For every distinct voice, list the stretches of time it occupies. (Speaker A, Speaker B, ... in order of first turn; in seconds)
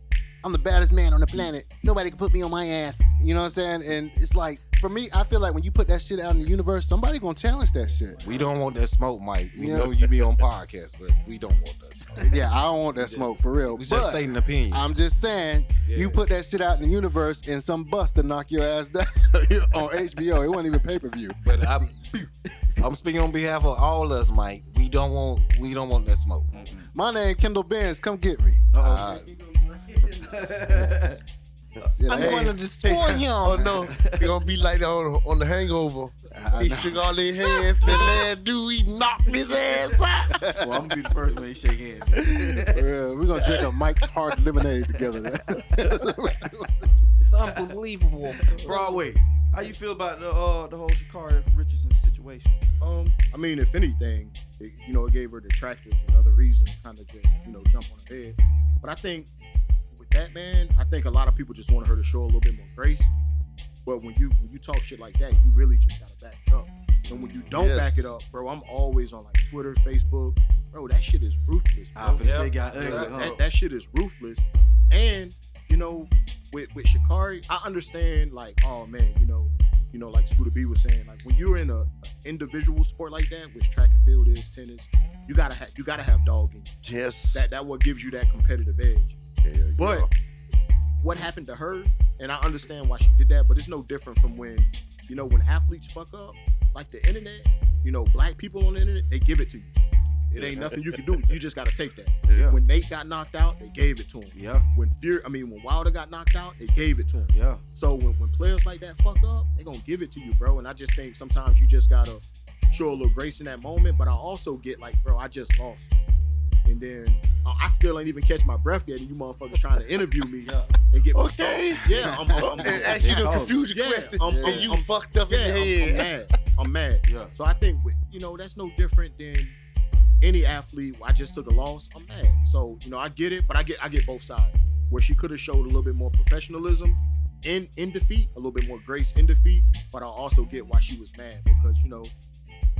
Speaker A: 0.4-8.5, 9.5-10.1, 12.2-21.9, 26.9-28.7, 30.6-31.0, 31.9-33.9, 36.3-37.1, 37.6-38.1, 40.4-40.7, 42.7-46.9, 122.0-122.8, 124.3-124.7
Speaker B: 8.2-14.9, 15.9-16.2, 21.4-22.0, 22.8-26.6, 28.8-29.3, 32.1-33.7, 47.3-48.8, 72.2-73.4
Speaker C: 26.5-26.9, 28.7-29.2, 30.0-31.2, 33.9-34.3, 40.6-42.9, 48.5-52.5, 72.0-73.4, 102.3-102.6, 104.3-104.7, 107.3-107.6, 120.4-120.7, 123.0-123.6, 127.0-127.3
Speaker D: 30.0-30.3, 31.8-40.5, 67.1-68.1, 86.8-87.4, 89.5-90.1, 121.1-126.1
Speaker E: 52.8-59.3, 59.9-63.1, 63.9-86.8, 87.3-89.2, 89.8-90.1, 91.0-99.7, 100.3-115.9, 116.7-129.6, 130.2-142.1